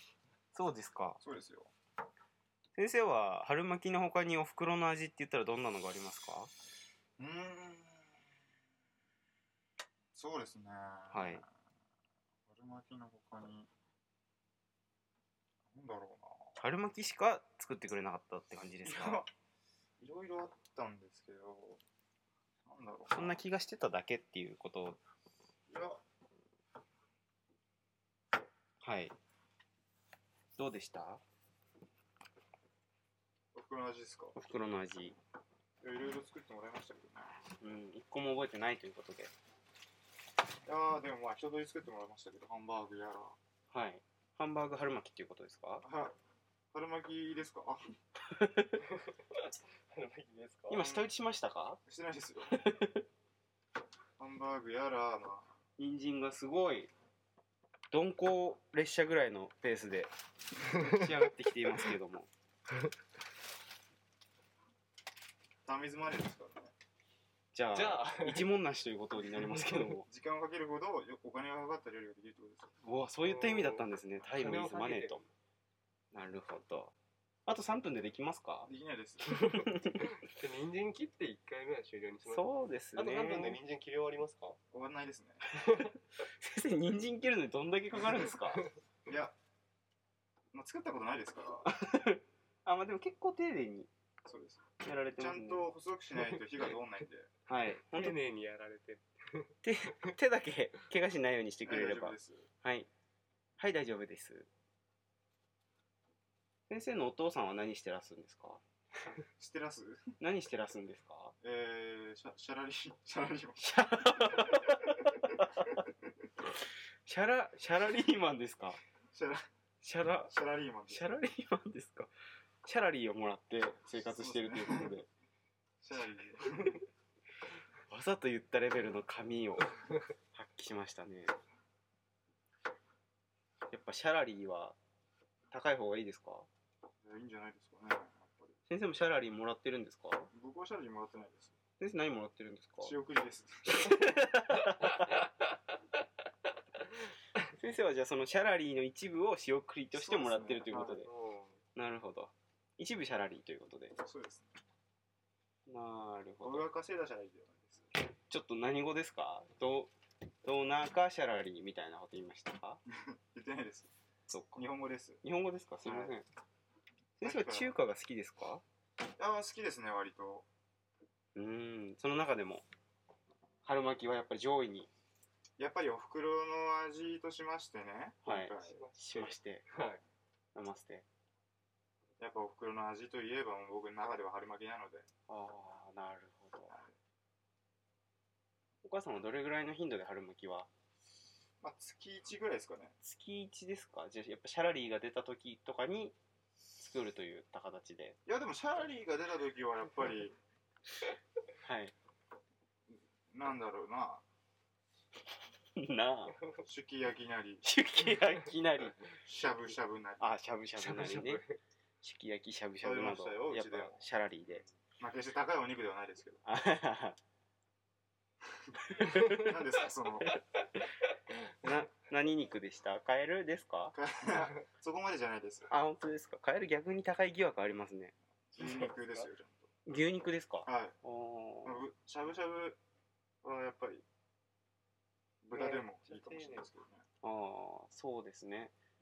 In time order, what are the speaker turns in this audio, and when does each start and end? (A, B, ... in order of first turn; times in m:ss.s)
0:00.5-0:01.2 A
0:01.2-0:01.7 B
0:02.8-0:06.5 A
0:07.2-0:08.0 B
0:10.1-0:11.4 B
0:11.1-0:11.4 A
0:12.5-0:13.7 B
0:15.7-0:16.5 B
0:16.6-0:19.2 A
0:18.8-0:19.3 B
0:20.0-0:21.8 B
0:22.6-0:23.4 B
0:23.1-0:25.0 A
0:25.7-0:26.0 B
0:28.8-0:29.1 A
0:30.6-0:31.2 A
0:33.5-0:34.3 B
0:34.3-0:35.2 A
0:35.8-0:37.3 B
0:37.6-0:39.3 A
0:40.6-0:43.4 B
0:43.7-0:45.8 A
0:45.8-0:46.1 B
0:46.7-0:47.8 B
0:48.3-0:48.8 A
0:49.0-0:50.8 C
0:50.7-0:51.8 A
0:50.8-0:51.1 B
0:51.8-0:52.7 B
0:52.5-0:53.0 A
0:54.2-0:55.5 B
0:55.8-0:56.9 A
0:57.9-1:00.1 A
1:00.6-1:02.3 A
1:05.6-1:06.7 B
1:07.5-1:10.0 A
1:07.7-1:08.5 C
1:09.4-1:09.9 C
1:10.0-1:12.7 B
1:12.8-1:15.2 A
1:13.2-1:15.3 C
1:16.1-1:16.9 A
1:17.5-1:18.7 A
1:18.6-1:19.6 B
1:19.3-1:20.2 A
1:20.1-1:24.6 C
1:22.2-1:23.6 A
1:24.7-1:25.4 B
1:25.6-1:25.9 C
1:26.4-1:28.7 A
1:29.1-1:29.3 B
1:30.5-1:31.7 B
1:31.7-1:33.9 A
1:34.2-1:37.3 B
1:34.8-1:35.7 A
1:37.5-1:38.2 A
1:37.8-1:39.5 C
1:39.6-1:42.9 A
1:41.6-1:42.4 B
1:43.6-1:44.5 A
1:46.7-1:48.6 A
1:49.4-1:50.1 B
1:50.2-1:51.3 A
1:51.4-1:54.7 B
1:53.6-1:55.8 A
1:57.0-1:58.8 A
1:59.1-1:59.5 B
1:59.8-2:00.3 A
2:00.3-2:01.1 B
2:00.9-2:02.1 A
2:02.6-2:05.1 A
2:04.0-2:05.0 B
2:05.8-2:06.8 B
2:07.9-2:09.7 A
2:10.3-2:11.3 A
2:13.7-2:14.8 A
2:15.5-2:16.5 A
2:17.0-2:18.6 B
2:18.7-2:20.3 A
2:20.3-2:21.5 B
2:21.8-2:23.0 A
2:22.8-2:24.2 B
2:23.7-2:25.2 A
2:27.4-2:31.1 A
2:29.9-2:31.6 B
2:31.8-2:34.0 A
2:34.0-2:34.5 B
2:35.7-2:36.6 A
2:36.4-2:37.8 B
2:38.3-2:39.9 A
2:40.4-2:42.8 A
2:42.9-2:43.9 B
2:44.3-2:44.6 A
2:44.6-2:45.2 B
2:45.2-2:46.2 A
2:45.8-2:46.1 B
2:47.2-2:48.6 A
2:47.2-2:47.7 B
2:49.2-2:50.4 B
2:51.4-2:52.6 A
2:53.6-2:54.9 A
2:55.6-2:58.8 B
2:58.2-2:59.6 A
2:58.6-3:00.0 C
3:00.5-3:01.0 A
3:02.2-3:05.1 B
3:05.3-3:06.8 A
3:08.8-3:10.7 A
3:11.6-3:12.9 B
3:13.0-3:16.1 A
3:16.8-3:18.2 A
3:18.3-3:20.4 B
3:21.6-3:21.9 A
3:22.9-3:24.2 B
3:25.8-3:26.4 A
3:26.6-3:27.7 B
3:27.6-3:29.0 A
3:29.2-3:30.4 B
3:30.2-3:31.4 A
3:30.8-3:31.6 C
3:32.0-3:34.6 A
3:32.8-3:34.0 B
3:35.0-3:36.4 B
3:36.4-3:37.2 A
3:38.9-3:39.5 A
3:39.0-3:40.4 B
3:41.6-3:43.9 A
3:43.9-3:45.7 B
3:45.7-3:48.1 A
3:48.5-3:49.3 C
3:48.6-3:49.7 B
3:49.8-3:51.8 A
3:50.6-3:51.0 B
3:51.6-3:52.8 B
3:53.4-3:54.0 B
3:55.4-3:57.0 B
3:55.5-3:56.6 C
3:57.2-3:58.7 A